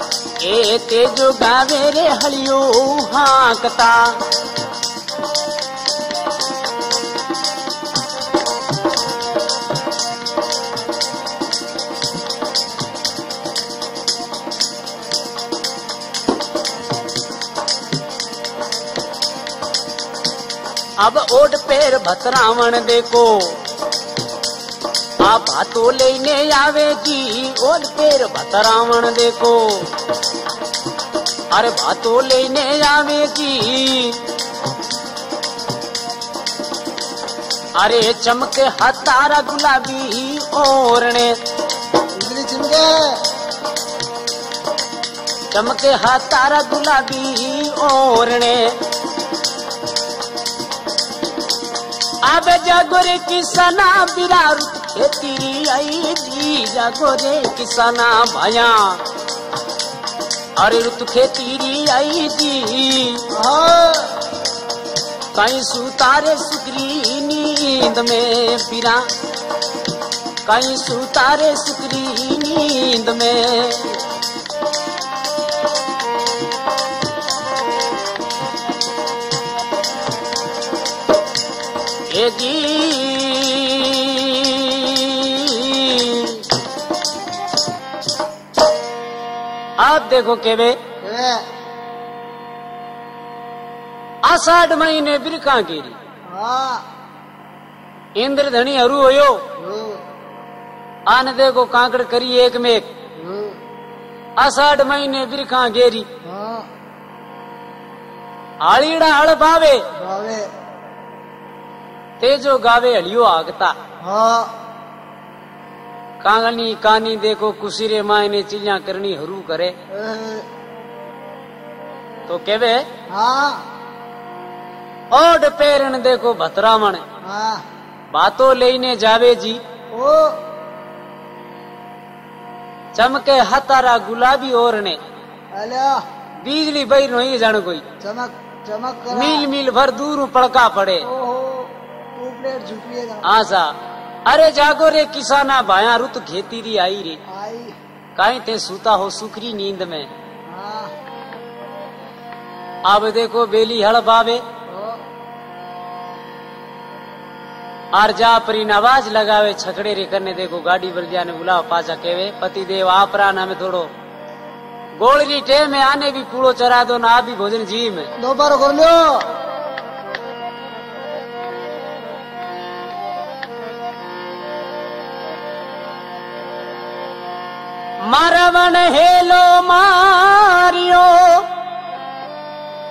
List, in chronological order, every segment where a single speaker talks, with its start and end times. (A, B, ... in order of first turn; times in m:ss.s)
0:00.4-0:04.2 A
0:21.0-0:23.5 A
0:25.2-0:29.8 A
0:31.5-0:34.2 A
0:37.8-0:41.4 A
0:42.2-0:43.2 B
0:45.5-0:48.7 A
0:52.2-0:59.0 A
1:00.6-1:03.2 A
1:03.3-1:04.1 B
1:05.4-1:09.0 A
1:10.5-1:14.0 A
1:22.1-1:26.4 A
1:29.8-1:30.8 A
1:31.0-1:31.4 B
1:34.2-1:36.0 A
1:36.3-1:36.8 B
1:38.2-1:39.4 A
1:39.6-1:40.0 B
1:41.1-1:42.9 A
1:43.2-1:43.6 B
1:44.4-1:46.1 A
1:46.2-1:46.7 B
1:48.6-1:49.8 A
1:50.0-1:50.5 B
1:52.2-1:53.8 A
1:54.0-1:54.5 B
1:56.2-1:59.8 A
1:59.9-2:00.5 B
2:02.3-2:02.8 A
2:03.1-2:03.6 B
2:05.1-2:07.0 A
2:07.2-2:07.6 B
2:08.1-2:09.6 A
2:09.9-2:10.4 B
2:12.9-2:15.0 A
2:15.5-2:16.0 B
2:16.4-2:17.8 A
2:18.0-2:19.5 B
2:19.1-2:21.1 A
2:21.0-2:23.3 B
2:23.2-2:23.7 A
2:24.3-2:27.2 A
2:27.3-2:27.8 B
2:28.2-2:30.1 A
2:30.5-2:30.9 B
2:32.9-2:34.4 A
2:34.7-2:35.0 B
2:38.0-2:43.9 A
2:45.0-2:48.1 A
2:48.2-2:49.3 B
2:58.0-3:01.5 A